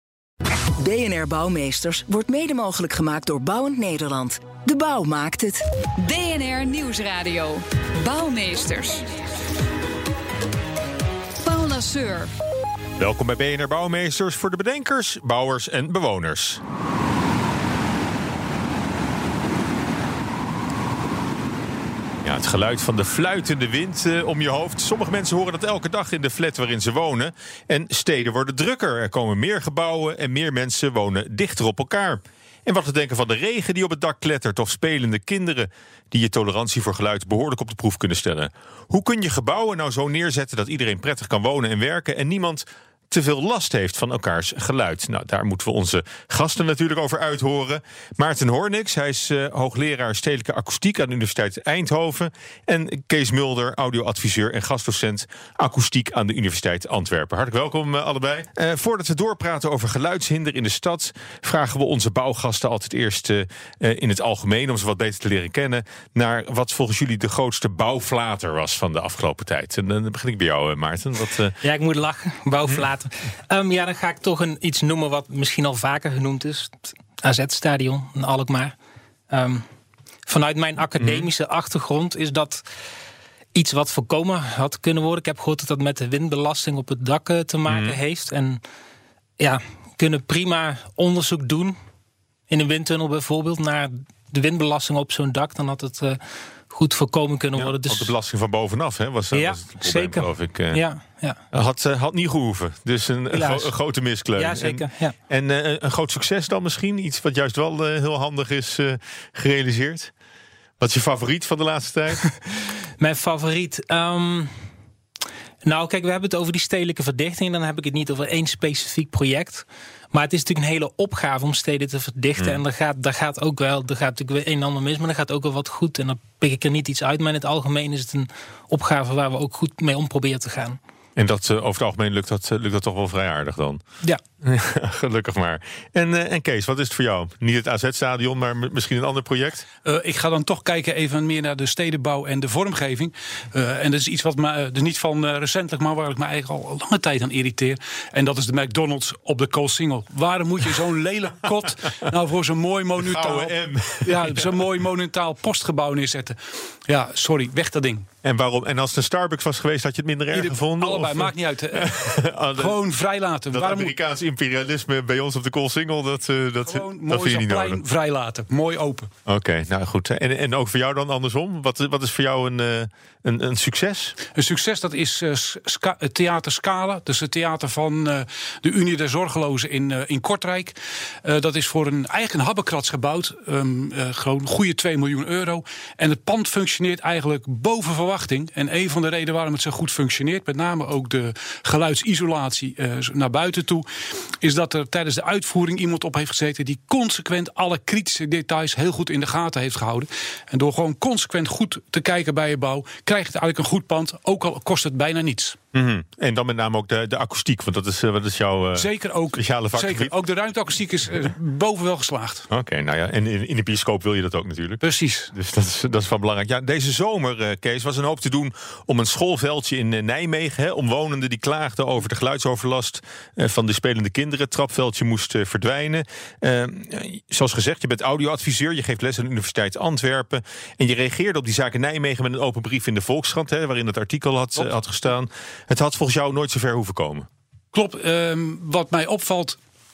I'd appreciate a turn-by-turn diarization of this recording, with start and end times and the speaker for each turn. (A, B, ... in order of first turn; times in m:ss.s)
0:00.8-0:05.6 A
0:06.0-0:09.1 B
0:11.4-0:12.3 B
0:13.0-0:16.6 C
0:22.2-1:11.6 C
1:11.6-1:18.7 D
1:19.3-1:19.6 D
1:20.3-1:22.6 D
1:21.0-1:21.3 C
1:23.5-1:28.6 D
1:27.7-1:28.0 C
1:29.4-1:31.8 D
1:32.5-1:36.2 D
1:36.7-1:38.1 D
1:37.6-1:40.8 C
1:39.3-1:41.4 D
1:41.5-1:50.1 C
1:43.3-1:43.7 D
1:44.4-1:45.2 D
1:50.8-1:52.3 C
1:53.0-1:54.5 D
1:55.6-2:10.8 D
2:11.2-2:13.8 C
2:14.4-2:19.7 C
2:19.8-2:38.1 E
2:33.0-2:34.5 C
2:38.2-2:42.7 C
2:40.3-2:43.9 E
2:43.5-2:47.8 C
2:46.6-2:49.1 E
2:49.2-2:54.2 C
2:54.3-3:13.8 E
3:14.4-3:25.6 E
3:25.7-3:30.1 C
3:28.8-3:32.5 E
3:32.5-3:34.8 C
3:34.8-3:35.3 E
3:35.3-3:57.3 C
3:57.7-3:59.6 E